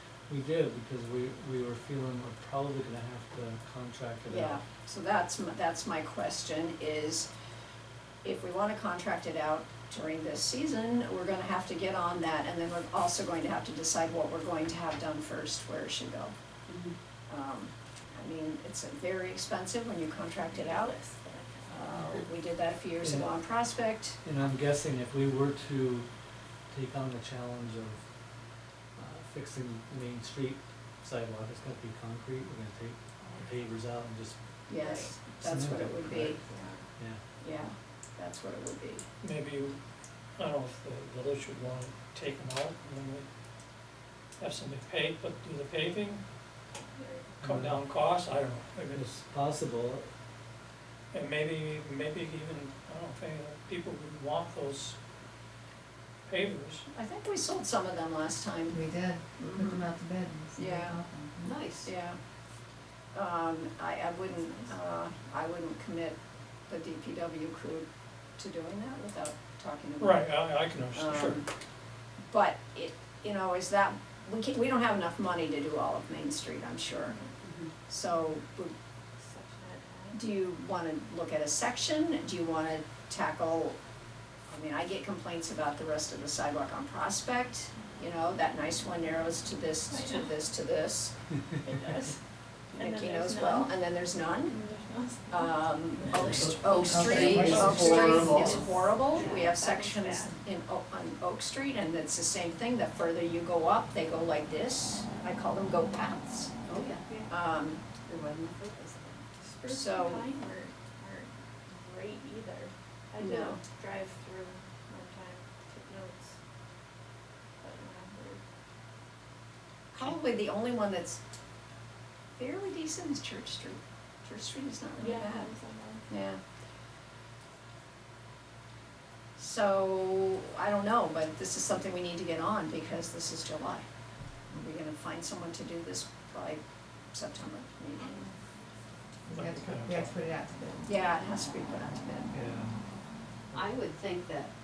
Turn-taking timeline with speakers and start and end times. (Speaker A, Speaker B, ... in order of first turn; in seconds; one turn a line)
Speaker A: 0.3-4.6
Speaker B: 4.3-7.3
Speaker B: 8.2-16.3
Speaker C: 16.7-16.9
Speaker B: 17.3-20.9
Speaker D: 20.4-21.9
Speaker B: 21.7-24.2
Speaker A: 23.0-23.3
Speaker A: 24.2-26.1
Speaker A: 26.7-28.0
Speaker A: 28.9-34.4
Speaker B: 34.7-36.4
Speaker D: 34.7-35.2
Speaker A: 35.4-36.4
Speaker D: 36.3-36.8
Speaker B: 37.4-39.0
Speaker E: 39.2-39.8
Speaker E: 40.4-43.2
Speaker E: 44.4-46.2
Speaker D: 46.9-47.4
Speaker A: 47.4-47.8
Speaker E: 47.4-49.0
Speaker A: 48.9-50.1
Speaker E: 51.1-55.0
Speaker E: 56.3-56.9
Speaker B: 56.9-59.9
Speaker F: 58.7-61.6
Speaker B: 60.5-61.0
Speaker C: 61.4-61.9
Speaker B: 61.8-62.2
Speaker B: 63.1-67.8
Speaker B: 68.4-70.3
Speaker E: 70.0-71.4
Speaker B: 70.9-71.5
Speaker B: 72.3-77.2
Speaker C: 77.4-77.7
Speaker B: 77.9-78.7
Speaker D: 79.2-80.2
Speaker B: 80.1-83.8
Speaker B: 84.5-91.2
Speaker D: 89.9-90.3
Speaker D: 91.6-92.2
Speaker D: 92.7-93.8
Speaker B: 92.7-94.6
Speaker D: 94.5-96.4
Speaker B: 95.3-106.5
Speaker A: 96.1-96.5
Speaker E: 96.2-98.3
Speaker C: 96.7-97.8
Speaker F: 96.7-98.6
Speaker D: 97.8-100.4
Speaker C: 106.7-107.1
Speaker D: 107.0-107.3
Speaker B: 107.3-107.8
Speaker C: 108.0-109.2
Speaker D: 109.4-116.3
Speaker B: 109.7-110.2
Speaker B: 113.2-113.6
Speaker D: 117.6-118.4
Speaker B: 119.9-121.2
Speaker B: 122.3-125.5
Speaker D: 125.0-126.0
Speaker B: 126.1-126.4
Speaker B: 129.4-133.8
Speaker B: 134.5-138.3
Speaker F: 139.3-140.8
Speaker E: 139.3-140.2
Speaker B: 140.8-142.3
Speaker A: 142.3-142.8
Speaker C: 143.5-144.5